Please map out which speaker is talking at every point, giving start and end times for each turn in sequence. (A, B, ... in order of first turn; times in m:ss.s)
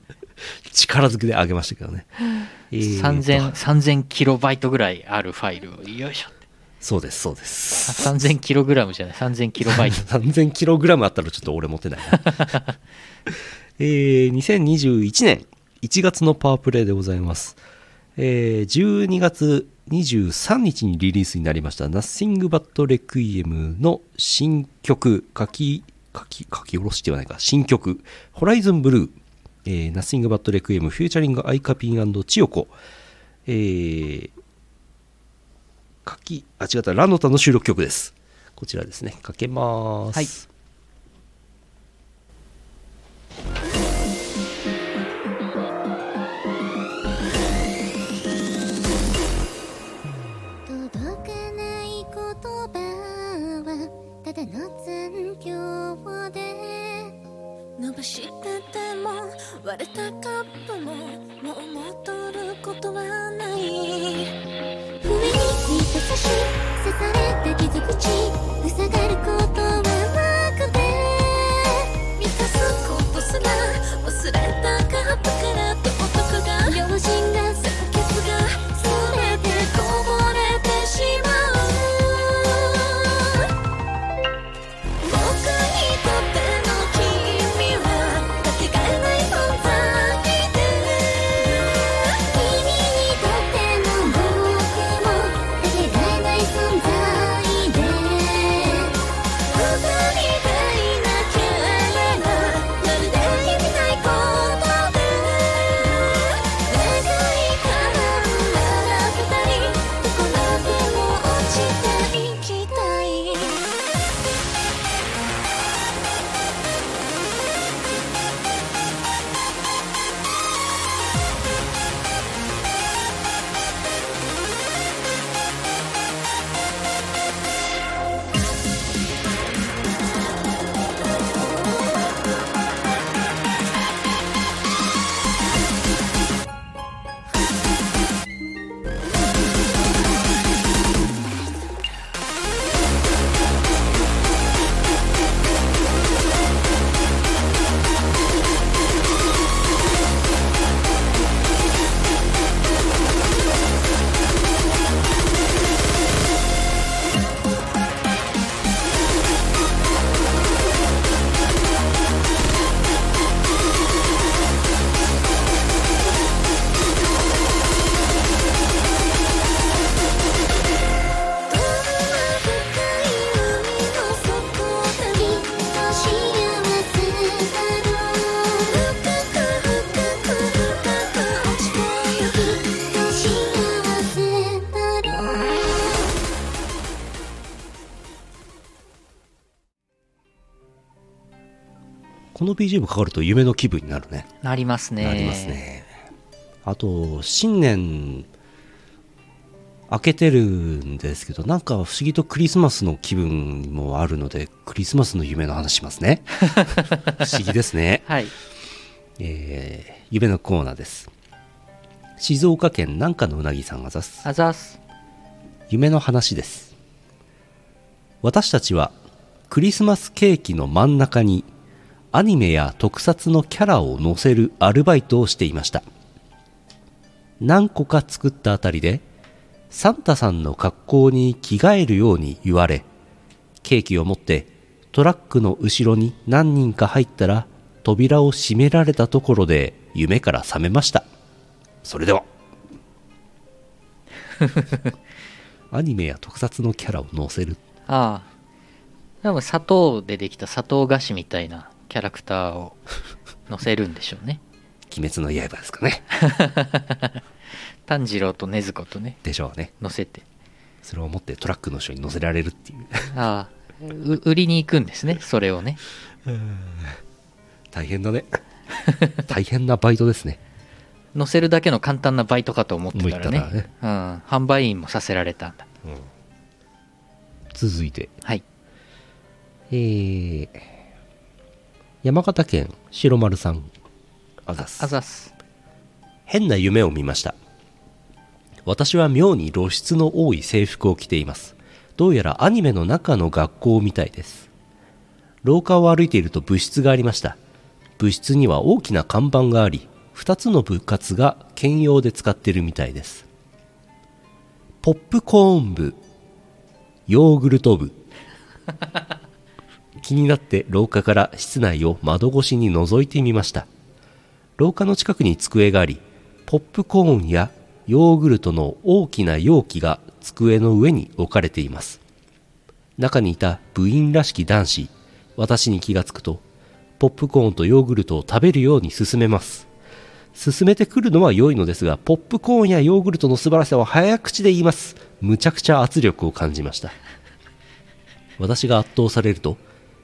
0:00.5-0:02.1 A
0:02.4-0:06.4 B
0:02.7-0:03.5 A
0:06.8-0:08.3 A
0:07.9-0:10.0 B
0:09.6-0:12.6 A
0:12.2-0:12.7 B
0:13.3-0:17.6 A
0:18.2-0:32.8 A
0:33.5-0:34.3 A
0:36.0-0:40.5 A
0:50.7-0:57.1 C
0:57.8-1:04.3 D
1:05.0-1:11.9 C
1:12.2-1:17.0 D
1:16.7-1:17.7 C
1:17.6-1:23.5 D
1:18.8-1:19.7 C
1:25.0-1:32.2 D
1:32.2-1:38.9 C
1:39.5-1:53.8 D
2:51.5-2:56.2 D
2:55.2-2:58.7 C
2:58.7-3:02.3 D
3:02.2-3:05.4 C
3:12.3-3:14.3 A
3:14.4-3:15.6 B
3:15.0-3:15.9 A
3:16.6-3:18.3 A
3:19.9-3:28.1 A
3:26.5-3:27.2 B
3:28.1-3:28.3 B
3:29.2-3:31.1 A
3:32.2-3:34.3 A
3:34.2-3:34.8 B
3:35.7-3:36.7 A
3:38.2-3:39.0 A
3:39.5-3:41.5 A
3:42.1-3:45.8 A
3:47.4-3:49.0 A
3:49.7-3:52.9 A
3:53.6-4:01.1 A
4:01.8-4:02.3 A
4:04.4-4:04.9 B
4:05.7-4:07.6 A
4:07.9-4:08.3 B
4:09.2-4:12.8 B
4:13.5-4:14.4 B
4:14.9-4:16.1 A
4:16.1-4:17.2 B
4:17.9-4:19.2 B
4:19.2-4:19.7 A
4:19.8-4:20.2 B
4:20.8-4:23.2 A
4:23.1-4:25.8 B
4:26.3-4:27.0 A
4:27.7-4:28.4 A
4:28.8-4:29.1 B
4:29.3-4:30.4 A
4:31.1-4:35.7 B
4:32.9-4:33.7 A
4:37.5-4:38.2 A
4:39.7-4:40.7 A
4:42.0-4:43.7 A
4:44.4-4:45.0 A
4:44.6-4:45.3 B
4:46.3-4:47.4 A
4:48.6-4:54.5 A
4:55.4-4:57.4 A
4:58.0-5:03.3 A
5:04.8-5:06.0 A
5:07.1-5:08.0 A
5:10.0-5:13.7 A
5:14.6-5:22.0 A
5:23.0-5:26.4 A
5:27.0-5:29.7 A
5:30.4-5:37.0 A
5:38.4-5:39.6 A